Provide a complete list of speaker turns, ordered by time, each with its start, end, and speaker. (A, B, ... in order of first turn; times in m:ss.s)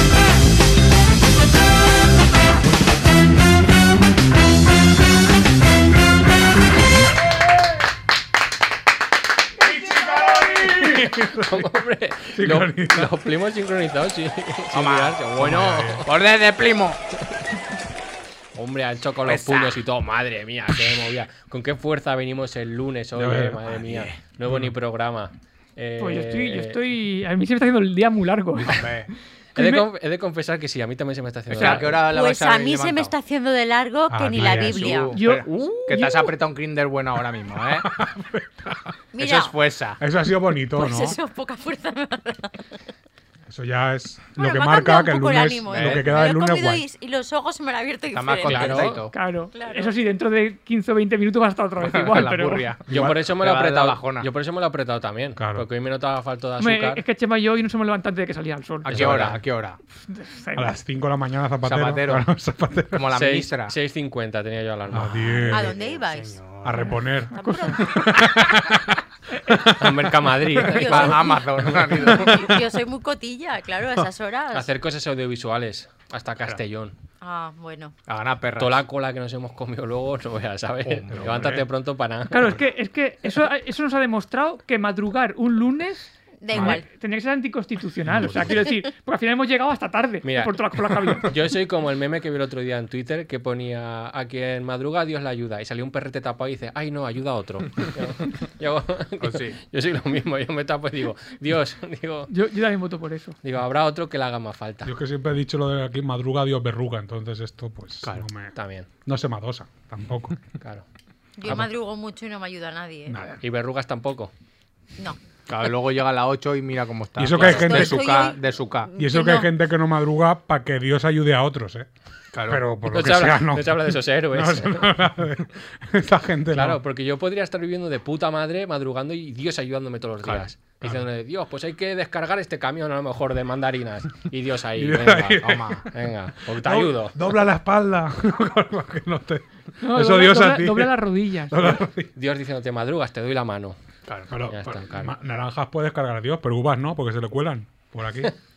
0:09.6-0:11.7 A
0:11.1-0:16.1 B
0:12.3-0:13.2 A
0:14.7-0:17.0 C
0:15.4-0:16.0 A
0:18.6-0:26.8 B
0:19.2-0:19.8 C
0:23.1-0:23.6 A
0:23.7-0:24.2 C
0:24.5-0:24.7 A
0:26.0-0:29.8 D
0:28.6-0:29.1 C
0:29.6-0:32.0 B
0:31.5-0:33.1 C
0:31.5-0:31.9 D
0:31.9-0:35.2 E
0:34.1-0:34.9 A
0:34.4-0:37.9 C
0:35.1-0:36.4 D
0:37.7-0:39.0 A
0:39.1-0:39.6 E
0:39.2-0:40.0 C
0:40.0-0:41.2 A
0:40.7-0:42.7 E
0:43.5-0:46.8 A
0:44.4-0:48.9 E
0:45.7-0:46.1 C
0:48.1-0:49.2 C
0:48.4-0:49.1 B
0:49.1-0:52.7 D
0:49.5-0:49.9 E
0:51.8-0:54.3 C
0:52.9-0:57.0 B
0:52.9-0:53.2 A
0:55.4-0:55.7 A
0:56.6-0:59.2 D
0:58.8-0:59.8 C
0:58.9-0:59.4 B
1:00.1-1:00.8 D
1:00.6-1:03.1 A
1:01.6-1:02.3 C
1:02.9-1:03.7 C
1:03.1-1:05.4 B
1:04.9-1:07.0 C
1:04.9-1:05.8 A
1:05.5-1:08.3 E
1:06.6-1:10.8 A
1:07.4-1:07.8 D
1:09.3-1:09.7 D
1:09.8-1:11.9 B
1:10.7-1:11.5 E
1:10.8-1:12.5 C
1:12.0-1:12.4 A
1:12.0-1:14.7 E
1:14.5-1:17.0 B
1:17.2-1:18.0 E
1:18.1-1:18.8 C
1:18.6-1:22.5 B
1:20.8-1:21.5 C
1:21.1-1:21.7 A
1:22.3-1:31.3 D
1:26.4-1:26.9 E
1:26.5-1:26.8 C
1:28.1-1:28.5 A
1:30.2-1:30.5 B
1:31.2-1:42.3 B
1:39.2-1:39.6 C
1:42.3-1:43.4 D
1:43.4-1:44.9 B
1:44.8-1:48.5 A
1:48.6-1:48.9 B
1:49.0-1:50.4 A
1:51.4-1:53.2 E
1:53.1-1:53.4 A
1:53.4-1:54.3 B
1:55.5-1:58.9 C
1:57.2-1:58.1 A
1:57.4-1:57.6 B
1:57.4-1:59.5 E
1:59.0-2:01.9 A
2:02.3-2:02.6 C
2:02.5-2:06.8 A
2:02.9-2:05.0 B
2:06.5-2:17.2 B
2:10.2-2:10.9 C
2:14.7-2:15.9 A
2:15.4-2:15.9 C
2:16.4-2:22.1 A
2:19.8-2:21.8 D
2:22.2-2:23.8 B
2:24.3-2:28.3 A
2:24.5-2:25.1 B